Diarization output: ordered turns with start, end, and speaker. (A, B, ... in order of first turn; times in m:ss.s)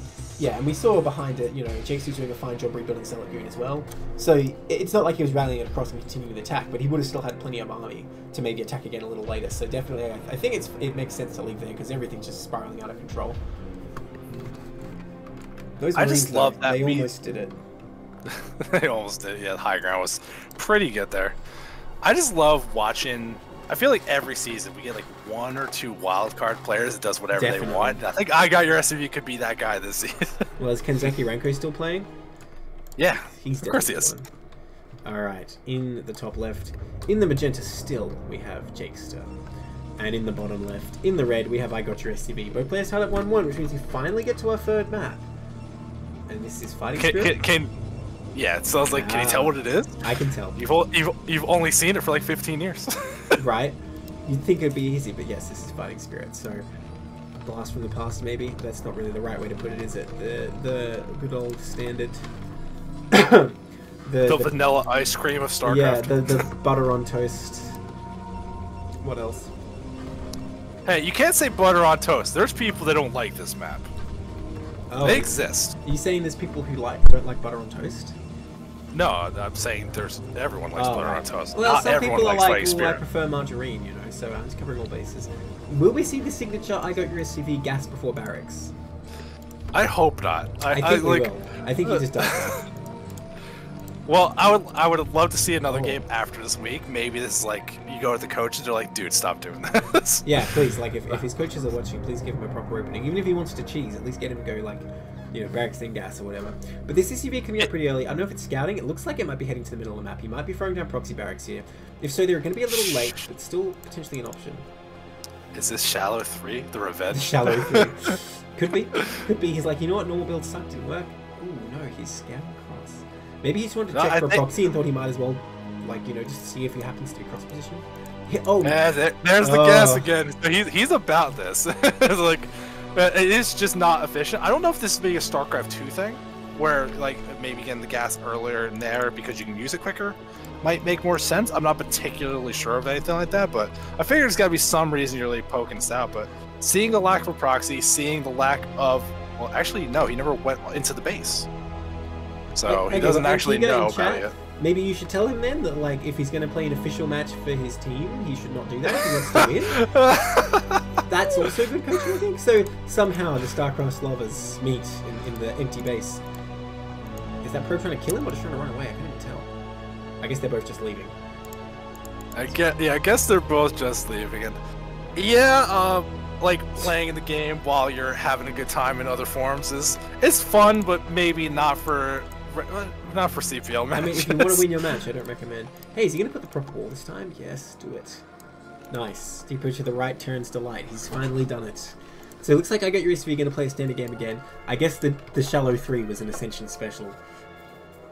0:00.4-0:13.4 A
0:15.8-0:17.6 A
0:16.0-0:17.1 B
0:18.3-0:21.4 B
0:22.0-0:30.5 B
0:27.4-0:28.0 A
0:30.6-0:32.1 A
0:33.0-0:34.1 B
0:33.4-0:34.3 A
0:35.0-0:39.4 A
0:40.0-0:45.3 A
0:46.3-0:47.4 A
0:47.0-0:47.8 B
0:48.4-0:50.0 B
0:48.9-0:50.6 A
0:50.6-0:53.4 B
0:53.4-0:56.6 A
0:57.4-1:02.3 A
1:03.1-1:04.5 A
1:04.2-1:06.5 B
1:05.6-1:07.8 A
1:09.0-1:09.5 A
1:10.8-1:13.9 B
1:14.9-1:18.2 A
1:15.0-1:15.8 B
1:18.9-1:23.0 B
1:20.8-1:28.7 A
1:29.7-1:31.3 B
1:30.7-1:32.6 A
1:31.8-1:32.7 B
1:34.1-1:41.2 B
1:35.7-1:36.0 A
1:40.2-1:54.7 A
1:52.7-1:53.2 B
1:55.5-1:58.2 B
1:57.1-2:08.8 A
1:59.0-1:59.2 B
2:03.9-2:04.5 B
2:08.6-2:31.5 B
2:09.4-2:10.1 A
2:32.6-2:34.3 B
2:32.7-2:39.8 A
2:39.0-2:42.1 B
2:41.1-2:46.2 A
2:47.4-2:49.5 A
2:50.2-2:51.2 A
2:52.4-2:54.6 B
2:55.2-3:04.7 B
3:03.9-3:08.2 A
3:08.9-3:17.2 A